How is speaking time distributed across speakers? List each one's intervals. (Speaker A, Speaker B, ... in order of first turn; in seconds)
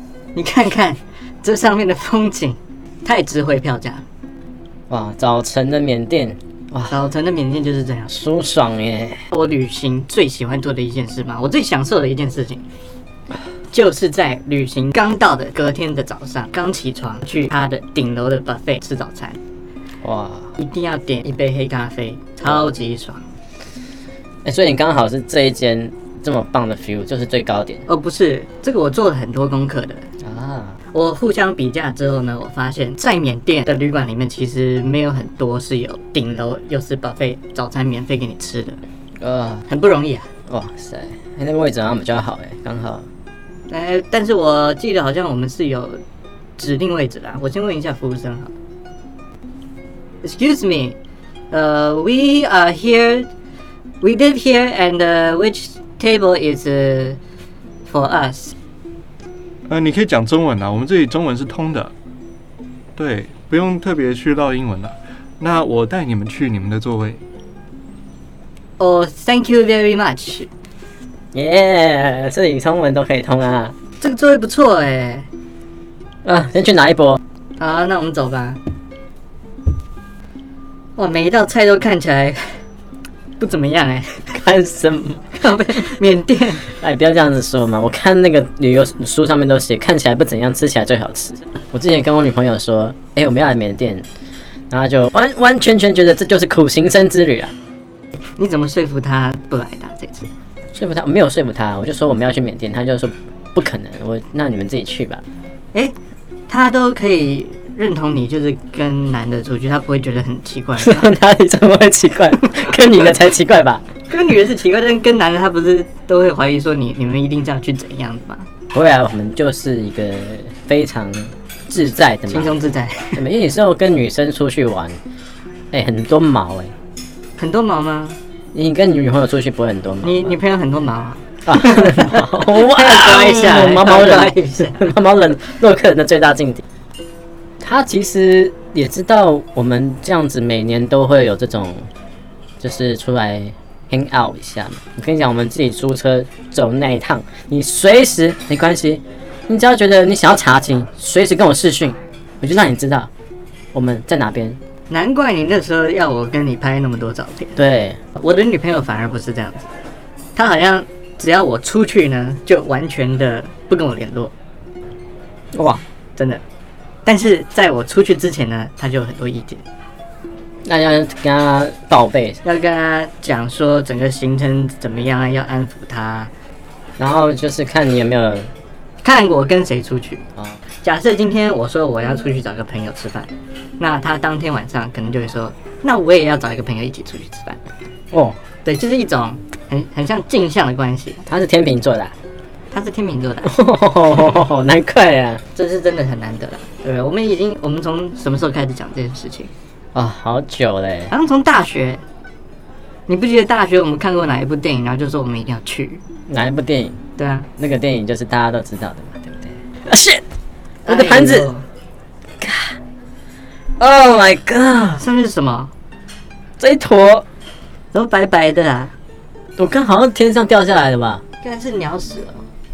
Speaker A: 0.3-4.0, 6.9-8.2, 9.3-12.6, 13.7-19.4, 20.6-23.2, 27.9-30.1, 30.9-38.8, 39.7-40.3, 43.7-46.0, 46.6-48.5, 50.2-51.0, 51.5-53.3, 54.0-57.2, 57.9-58.5, 68.8-70.5, 74.0-75.3, 77.6-78.6, 81.0-82.6, 83.4-84.3, 85.3-86.7, 98.4-100.3, 106.5-111.1, 114.1-118.5, 122.3-123.2, 127.4-128.2, 130.0-134.9, 154.9-157.6, 158.1-159.7, 160.3-164.3, 166.2-166.4, 167.0-169.6, 172.4-176.3, 179.0-180.3, 180.8-187.6, 188.6-191.2, 192.7-193.5, 195.5-199.5, 201.1-202.0, 203.1-206.0, 207.2-207.5, 210.8-211.7, 215.0-215.7, 217.9-218.9, 221.4-222.4
Speaker B: 4.9-7.0, 8.1-9.2, 20.0-20.6, 24.4-27.8, 30.2-30.8, 39.2-39.6, 40.5-43.0, 71.3-73.7, 76.2-77.2, 84.3-85.4, 86.7-94.0, 94.7-97.5, 100.7-105.2, 110.8-113.8, 118.7-122.5, 123.1-125.0, 125.7-126.7, 128.5-130.3, 131.4-136.6, 137.6-141.9, 142.6-153.1, 153.7-154.6, 157.6-158.0, 165.5-165.8, 170.6-172.4, 177.0-178.5, 188.1-188.4, 191.2-192.1, 193.4-195.4, 199.9-201.1, 206.3-207.0, 207.6-210.2, 210.8-211.5, 212.4-212.8, 213.8-215.0, 216.6-217.2, 219.6-221.2
Speaker C: 59.7-61.9, 63.0-67.2